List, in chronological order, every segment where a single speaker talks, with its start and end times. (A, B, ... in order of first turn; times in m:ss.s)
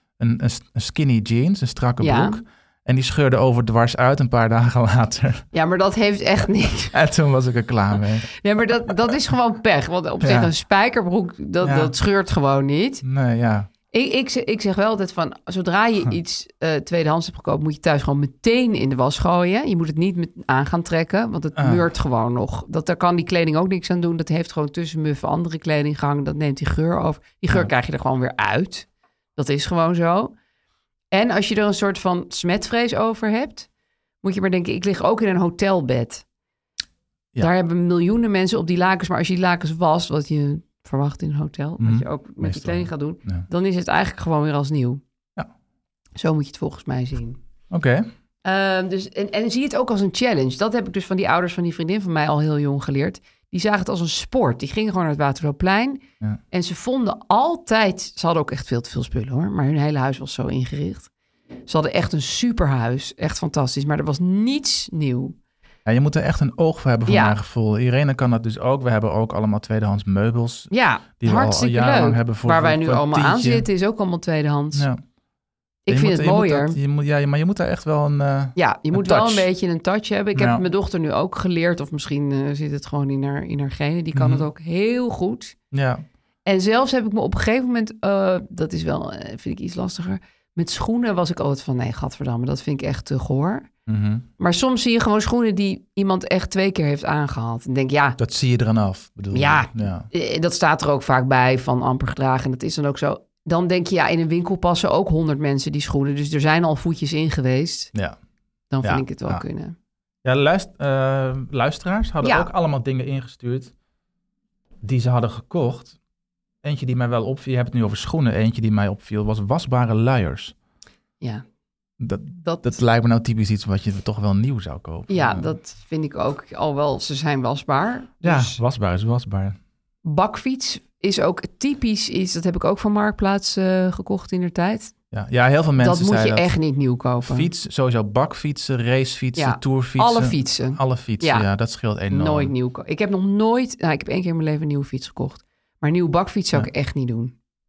0:00.2-0:05.5 A
0:02.0-0:02.4 B
0:05.5-0:07.0 B
0:06.9-0:08.3 A
0:08.3-0:13.0 B
0:10.2-0:10.5 A
0:11.6-0:11.9 A
0:13.0-0:13.7 A
0:13.9-0:30.3 B
0:21.6-0:21.8 A
0:31.1-0:33.7 B
0:34.2-0:36.2 B
0:37.4-0:45.0 B
0:41.8-0:43.5 A
0:46.2-0:47.4 B
0:47.7-0:48.1 A
0:48.4-1:01.1 B
1:01.7-1:05.4 B
1:05.8-1:13.7 A
1:07.1-1:07.4 B
1:10.7-1:14.9 B
1:14.7-1:15.0 A
1:15.9-1:16.8 B
1:15.9-1:19.5 A
1:18.6-1:25.6 B
1:20.4-1:20.6 A
1:24.1-1:24.5 A
1:25.7-1:26.0 A
1:26.4-1:33.7 B
1:33.9-1:34.3 A
1:34.4-1:38.2 B
1:38.2-1:40.1 A
1:39.3-1:47.9 B
1:48.7-1:49.8 B
1:48.8-1:49.4 A
1:50.2-1:53.7 A
1:52.2-1:52.5 B
1:54.8-1:56.0 A
1:56.6-2:00.6 A
2:02.0-2:05.5 A
2:02.4-2:02.8 B
2:05.1-2:08.6 B
2:08.2-2:09.6 A
2:10.0-2:14.9 B
2:15.1-2:16.5 A
2:15.8-2:17.5 B
2:17.2-2:22.5 A
2:19.4-2:21.5 B
2:22.1-2:27.3 B